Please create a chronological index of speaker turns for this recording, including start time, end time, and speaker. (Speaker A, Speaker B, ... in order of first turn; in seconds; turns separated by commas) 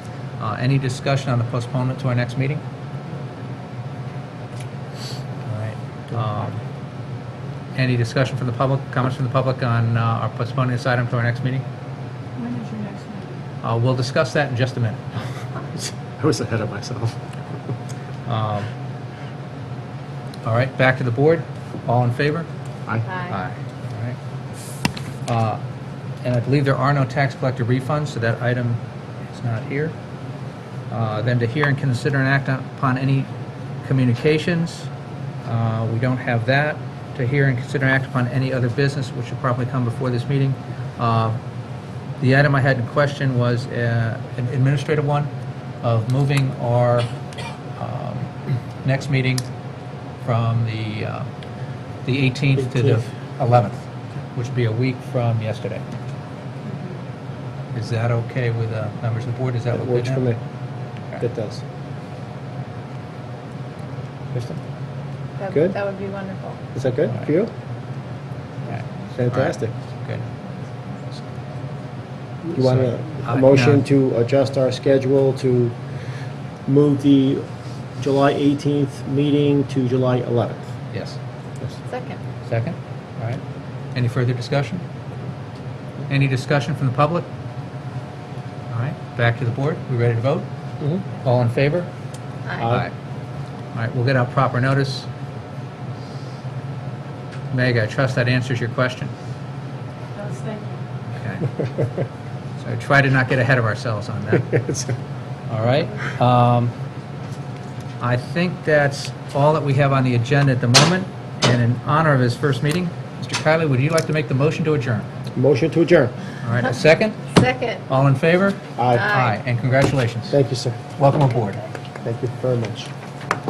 Speaker A: 0.4-2.6, Speaker A: 5.4-6.6, Speaker A: 7.7-11.6, Speaker B: 12.3-13.4, Speaker A: 13.6-15.0, Speaker C: 15.7-17.2, Speaker A: 18.2-18.7, Speaker A: 20.4-22.5, Speaker D: 23.0-23.4, Speaker A: 23.3-24.2, Speaker A: 25.3-25.6, Speaker A: 26.2-29.9, Speaker A: 30.9-33.3, Speaker A: 33.8-34.9, Speaker A: 35.4-41.4, Speaker A: 42.2-45.3, Speaker A: 45.8-47.1, Speaker A: 47.8-48.3, Speaker A: 48.8-49.5, Speaker A: 50.2-51.3, Speaker A: 52.0-53.8, Speaker C: 52.6-53.0, Speaker A: 54.3-55.8, Speaker B: 56.7-56.9, Speaker A: 57.7-60.2, Speaker C: 59.7-60.4, Speaker C: 61.2-61.6, Speaker A: 64.3-64.6, Speaker D: 65.4-66.6, Speaker C: 66.7-67.5, Speaker A: 68.7-70.3, Speaker C: 69.1-69.7, Speaker D: 70.4-70.7, Speaker C: 72.4-75.8, Speaker A: 72.6-73.8, Speaker C: 76.7-77.5, Speaker C: 78.0-80.7, Speaker A: 80.9-81.2, Speaker D: 81.9-82.2, Speaker A: 82.4-83.4, Speaker A: 83.9-84.8, Speaker A: 86.1-87.3, Speaker A: 88.7-90.5, Speaker A: 91.2-91.9, Speaker D: 92.5-92.8, Speaker C: 92.6-92.8, Speaker A: 92.6-92.9, Speaker A: 93.7-95.1, Speaker A: 97.5-99.1, Speaker B: 100.1-100.8, Speaker A: 101.1-101.6, Speaker A: 102.6-104.6, Speaker C: 104.5-104.9, Speaker A: 105.5-106.7, Speaker A: 108.0-115.1, Speaker C: 115.3-116.1, Speaker A: 116.4-117.2, Speaker D: 117.3-117.8, Speaker A: 117.9-120.4, Speaker C: 118.8-119.1, Speaker D: 118.9-119.4, Speaker C: 120.3-120.9, Speaker A: 121.0-121.6, Speaker C: 122.0-122.9